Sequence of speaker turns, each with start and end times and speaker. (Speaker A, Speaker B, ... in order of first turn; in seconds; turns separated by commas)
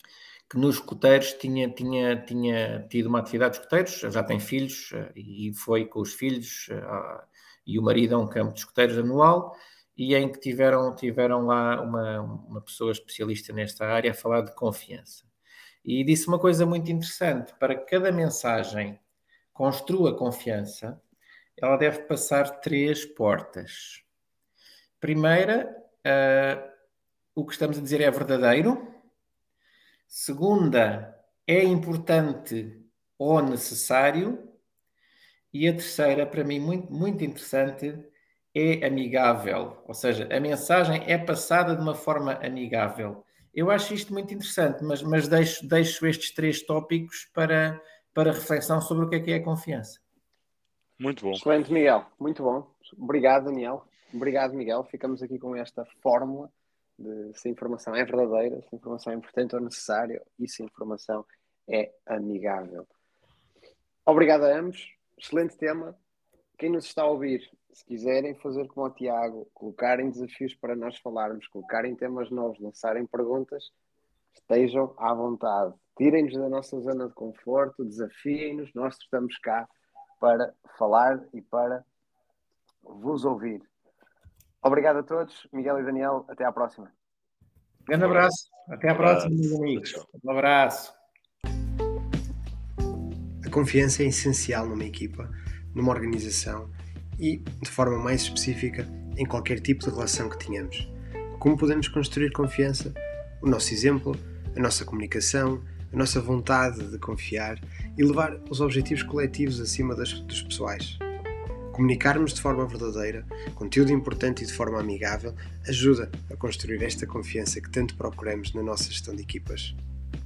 Speaker A: 0.5-15.2, Speaker A: 15.8-19.0, Speaker A: 19.5-21.0, Speaker A: 21.6-24.0, Speaker A: 25.0-26.7, Speaker A: 27.4-28.9, Speaker A: 30.1-34.5, Speaker A: 35.5-50.0, Speaker B: 51.0-51.4, Speaker C: 51.3-62.9, Speaker C: 64.0-66.0, Speaker C: 66.6-73.7, Speaker C: 74.3-79.7, Speaker C: 80.2-81.8, Speaker C: 82.8-83.7, Speaker C: 84.6-86.9, Speaker A: 87.9-90.9, Speaker B: 87.9-88.3, Speaker B: 88.9-90.0, Speaker D: 93.4-111.0, Speaker D: 111.7-119.8